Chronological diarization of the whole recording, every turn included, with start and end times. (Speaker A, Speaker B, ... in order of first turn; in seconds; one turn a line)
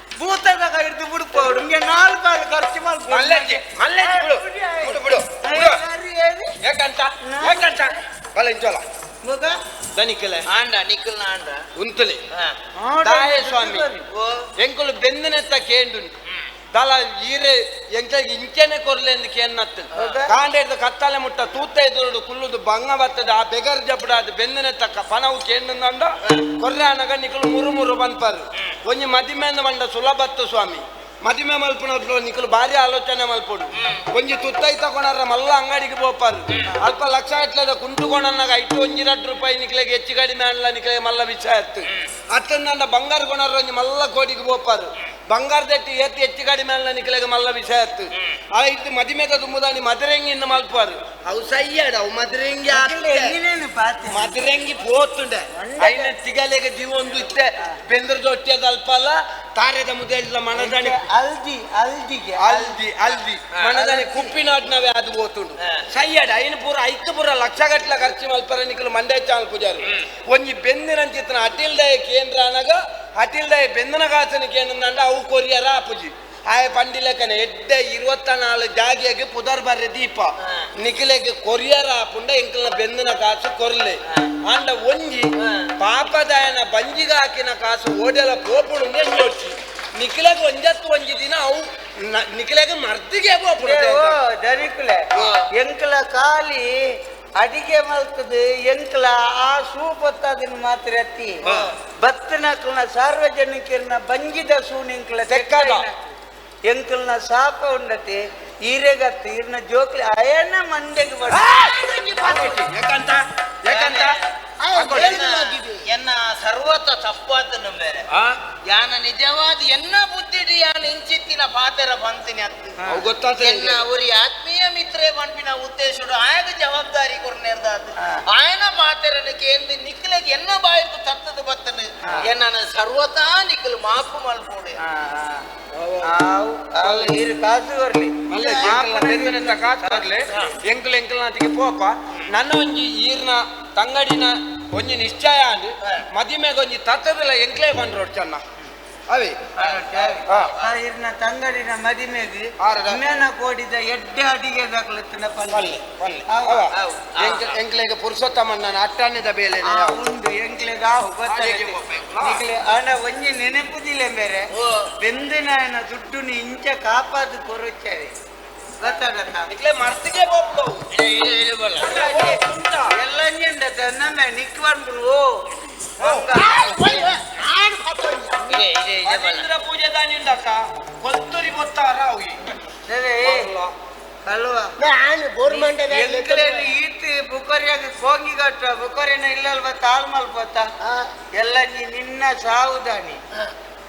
Speaker A: 0.2-6.5
Speaker B: 3.1-5.8
Speaker B: 6.6-8.8
Speaker A: 7.2-7.9
Speaker A: 9.2-9.6
Speaker B: 9.9-10.4
Speaker C: 10.5-11.6
Speaker B: 11.8-12.2
Speaker A: 12.8-14.1
Speaker B: 13.0-13.9
Speaker C: 14.1-14.5
Speaker B: 14.6-16.1
Speaker B: 16.7-53.2
Speaker C: 19.9-20.2
Speaker A: 19.9-20.4
Speaker C: 33.7-34.1
Speaker C: 36.5-36.8
Speaker A: 52.7-54.4
Speaker B: 54.1-61.0
Speaker A: 55.5-56.1
Speaker A: 60.6-62.8
Speaker B: 62.4-94.2
Speaker C: 63.5-64.3
Speaker C: 84.1-84.3
Speaker C: 85.4-85.7
Speaker A: 93.6-96.7
Speaker A: 97.4-106.2
Speaker B: 101.4-101.7
Speaker B: 105.3-105.9
Speaker A: 106.7-111.6
Speaker B: 111.3-114.2
Speaker D: 111.6-112.6
Speaker C: 113.7-114.2
Speaker D: 114.6-115.8
Speaker B: 114.8-115.3
Speaker C: 114.9-118.0
Speaker B: 118.1-118.4
Speaker C: 118.7-122.8
Speaker A: 122.8-123.1
Speaker B: 122.9-123.8
Speaker C: 123.4-134.8
Speaker A: 132.0-132.3
Speaker A: 134.8-135.5
Speaker B: 135.7-136.1
Speaker A: 136.0-140.5
Speaker B: 136.8-137.2
Speaker B: 138.3-148.4
Speaker B: 149.1-149.5
Speaker A: 149.6-156.7
Speaker C: 149.6-150.4
Speaker B: 150.3-150.5
Speaker B: 152.6-153.0
Speaker B: 155.5-160.0
Speaker C: 156.7-157.5
Speaker A: 159.6-164.4
Speaker B: 161.2-162.5
Speaker C: 164.5-164.9
Speaker A: 165.0-168.1
Speaker A: 168.8-169.5
Speaker B: 169.5-170.9
Speaker C: 170.9-171.9
Speaker B: 171.8-172.9
Speaker A: 171.9-172.4
Speaker A: 173.0-175.3
Speaker B: 176.0-176.3
Speaker A: 176.0-177.1
Speaker D: 176.3-178.6
Speaker C: 178.5-179.5
Speaker B: 179.1-182.6
Speaker A: 182.9-183.5
Speaker B: 183.2-183.7
Speaker A: 184.3-184.7
Speaker D: 184.8-186.8
Speaker A: 185.4-190.7
Speaker A: 191.4-193.2